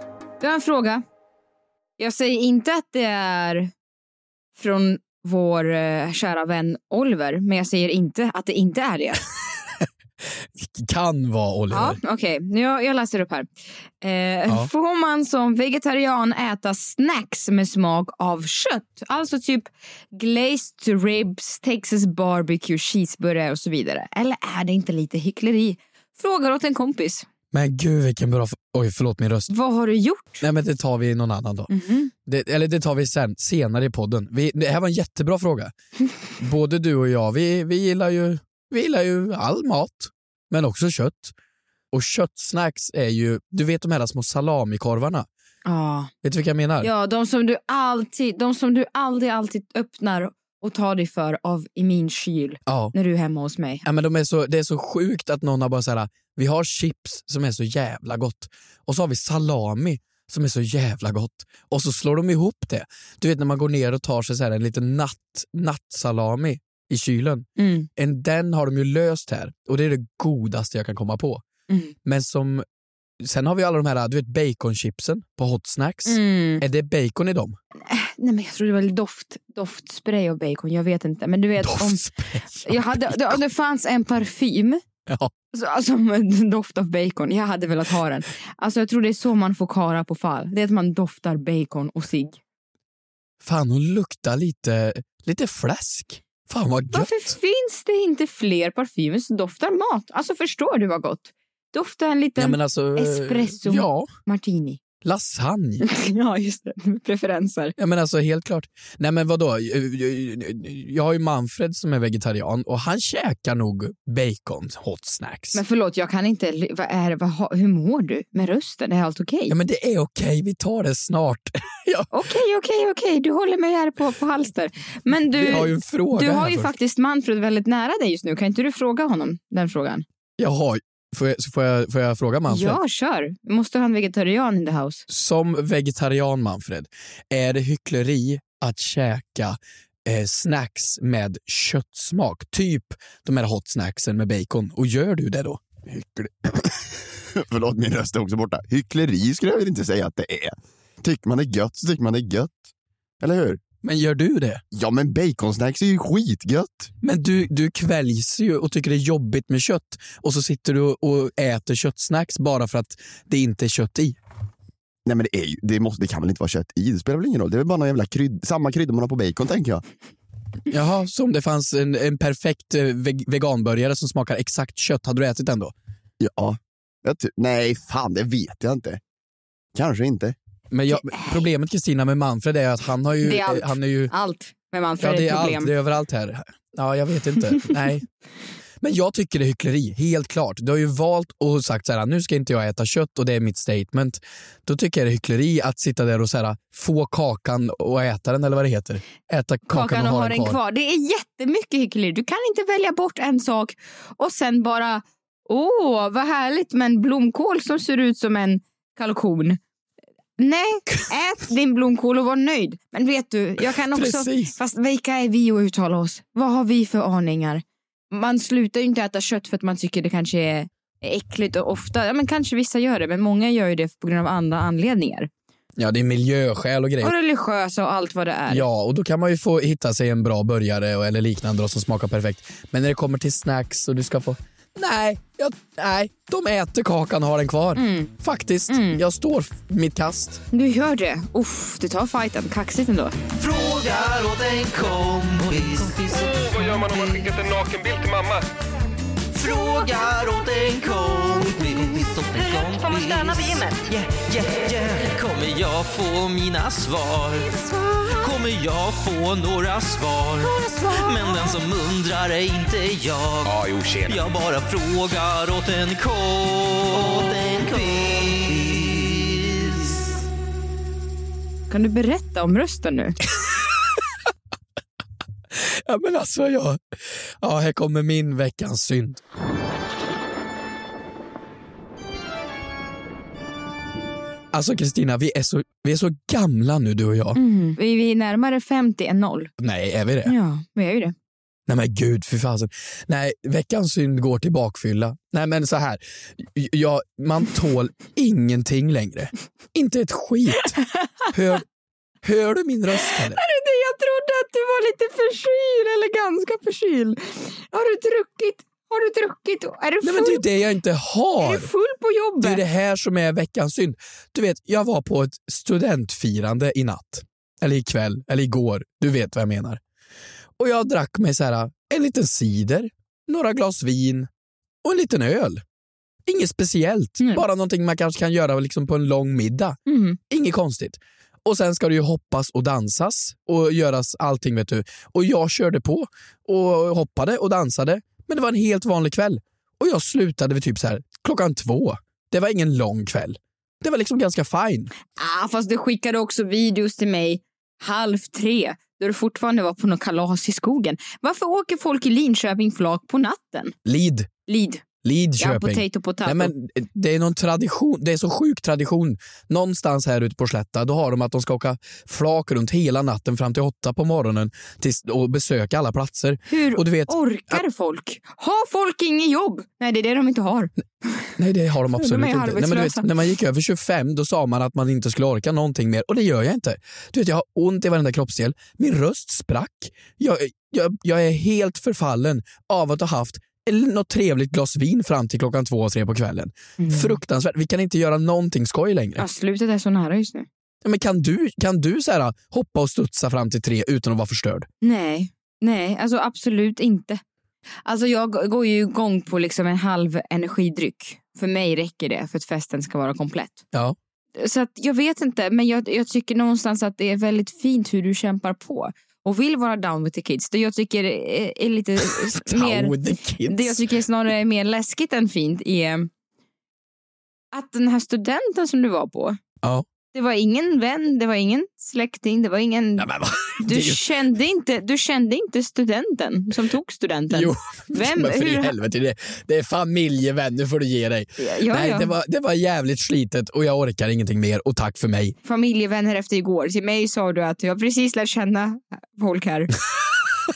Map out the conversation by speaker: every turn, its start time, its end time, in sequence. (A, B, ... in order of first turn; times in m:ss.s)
0:00.4-0:01.0 A
0:02.0-0:03.7 A
0:04.6-0:09.2 A
0:10.5-0:12.0 B
0:11.7-0:13.5 A
0:14.0-0:27.3 A
0:27.5-0:29.5 B
0:29.5-0:30.4 A
0:30.4-0:31.7 B
0:31.7-0:32.1 A
0:32.3-0:35.7 B
0:36.4-0:41.3 B
0:41.9-0:45.3 B
0:45.7-0:46.1 A
0:46.2-0:46.9 B
0:46.8-0:53.8 A
0:52.7-0:52.9 B
0:53.8-1:11.4 B
1:07.6-1:07.9 A
1:11.7-1:12.0 A
1:12.0-1:12.6 B
1:13.2-1:17.6 B
1:16.1-1:16.6 A
1:17.9-1:22.0 A
1:21.6-1:23.4 B
1:22.6-1:24.8 A
1:25.1-1:25.3 B
1:25.5-1:32.4 A
1:33.4-1:37.2 B
1:36.9-1:44.8 A
1:42.4-1:44.1 B
1:45.0-1:45.8 B
1:45.8-1:47.7 A
1:47.8-1:55.6 B
1:55.5-1:59.6 A
1:59.5-2:02.1 B
2:02.1-2:10.0 A
2:05.3-2:06.7 B
2:10.4-2:12.8 B
2:12.5-2:15.0 A
2:15.1-2:26.3 B
2:26.2-2:32.6 C
2:33.2-2:33.6 C
2:33.8-2:34.6 B
2:34.7-2:36.9 C
2:37.0-2:44.2 B
2:45.0-2:49.8 C
2:50.7-2:55.7 B
2:56.2-2:59.0 C
2:59.8-3:00.4 C
3:00.7-3:04.1 B
3:00.9-3:01.4 A
3:03.2-3:05.7 A
3:05.0-3:08.1 B
3:08.8-3:20.6 B
3:19.7-3:29.6 A
3:30.4-3:45.3 A
3:33.9-3:34.6 B
3:45.8-3:47.1 B
3:47.0-3:48.7 A
3:48.5-4:00.4 B
3:57.8-3:58.1 A
3:58.7-3:59.0 A
4:00.5-4:03.2 A
4:03.4-4:07.3 D
4:06.8-4:08.4 E
4:09.3-4:17.6 D
4:17.6-4:18.0 A
4:18.1-4:30.0 D
4:20.4-4:21.3 A
4:23.4-4:24.3 E
4:31.7-4:33.2 A
4:35.5-4:36.8 B
4:37.4-4:39.2 B
4:44.5-4:47.4 B
4:47.4-4:49.5 A
4:49.6-4:50.3 B
4:50.2-4:51.2 A
4:51.7-5:00.8 B
5:01.0-5:01.3 A
5:01.3-5:01.6 B
5:02.2-5:03.4 B
5:03.0-5:10.4 A
5:10.0-5:11.7 B
5:11.4-5:12.6 A
5:12.4-5:19.8 B
5:20.6-5:24.3 B
5:24.8-5:25.6 B
5:26.3-5:29.8 B
5:29.9-5:30.2 A
5:30.3-5:44.9 B
5:45.2-5:53.8 A
5:53.9-5:54.3 B
5:54.5-5:54.8 A
5:55.0-6:07.6 B
5:55.4-5:56.5 A
6:06.5-6:11.3 A
6:11.4-6:29.2 B
6:12.0-6:13.1 A
6:26.8-6:27.2 A
6:29.2-6:30.5 A
6:30.8-6:34.7 B
6:34.8-6:37.2 A
6:37.8-6:43.6 A
6:44.4-6:56.1 A
6:52.0-6:53.9 B
6:57.5-6:59.4 A
7:00.1-7:03.1 A
7:03.0-7:04.2 B
7:03.6-7:08.7 A
7:07.3-7:15.4 B
7:11.4-7:12.1 A
7:15.4-7:19.7 A